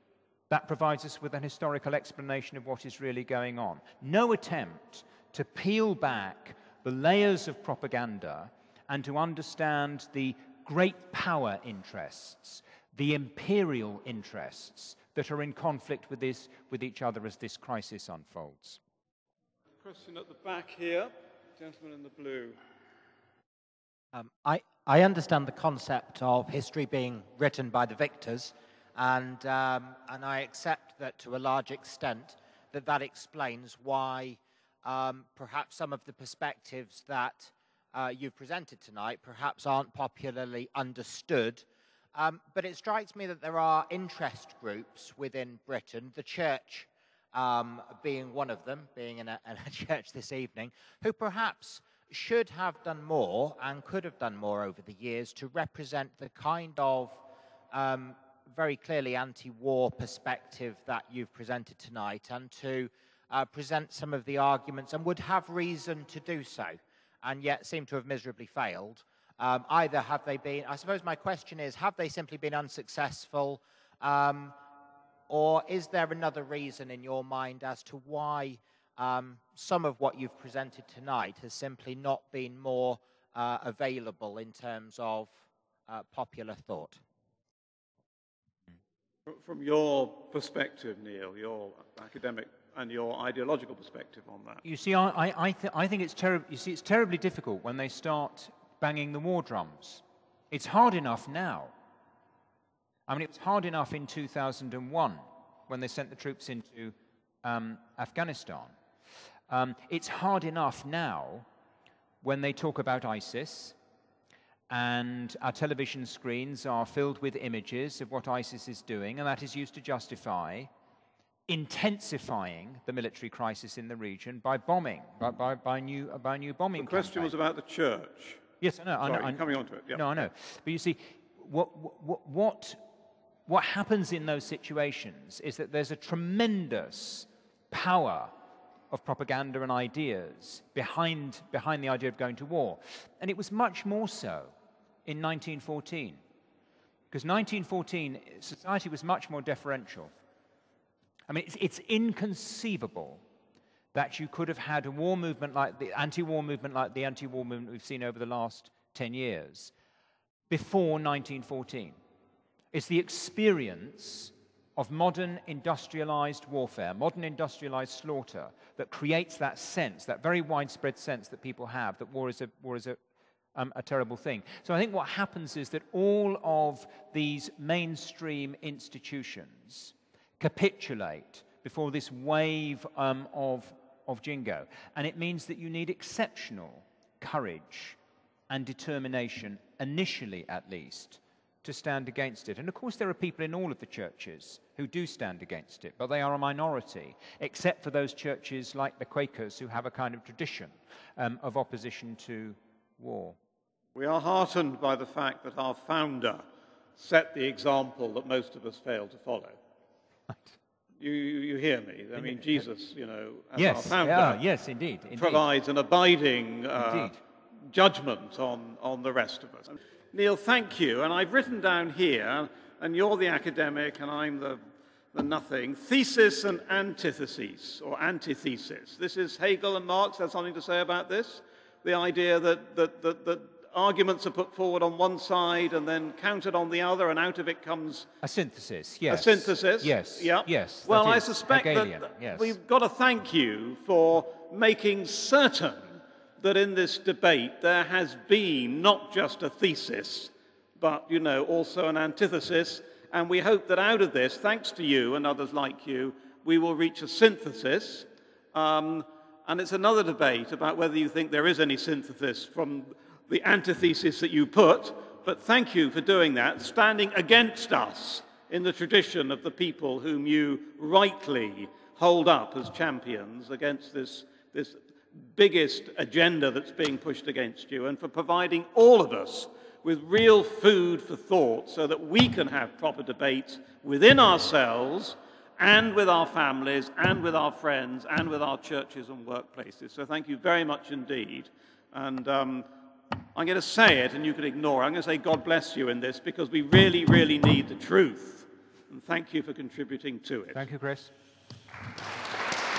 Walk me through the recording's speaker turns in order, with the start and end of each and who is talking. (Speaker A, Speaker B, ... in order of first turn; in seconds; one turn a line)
Speaker A: 0.5-18.8
Speaker B: 19.8-22.6
Speaker C: 24.1-41.6
Speaker C: 42.1-74.6
Speaker C: 75.3-87.0
Speaker B: 89.3-94.6
Speaker A: 94.6-101.7
Speaker A: 103.1-108.7
Speaker A: 109.5-111.5
Speaker A: 112.2-113.7
Speaker A: 114.7-120.7
Speaker A: 121.5-127.3
Speaker B: 126.7-128.4
Speaker A: 128.6-132.8
Speaker B: 129.0-130.3
Speaker A: 133.5-138.3
Speaker A: 138.9-144.5
Speaker A: 145.0-146.2
Speaker A: 147.1-150.1
Speaker A: 151.3-153.2
Speaker A: 153.9-159.7
Speaker A: 160.5-162.0
Speaker A: 162.7-173.0
Speaker A: 173.5-188.0
Speaker A: 188.5-203.4
Speaker B: 203.9-206.4
Speaker B: 207.0-209.6
Speaker A: 210.3-210.6
Speaker B: 211.0-214.4
Speaker A: 212.2-212.6
Speaker A: 213.5-215.4
Speaker B: 215.1-224.6
Speaker A: 216.8-217.2
Speaker B: 225.1-238.1
Speaker A: 238.2-242.6
Speaker B: 239.1-292.7
Speaker B: 293.3-300.6
Speaker A: 300.5-301.1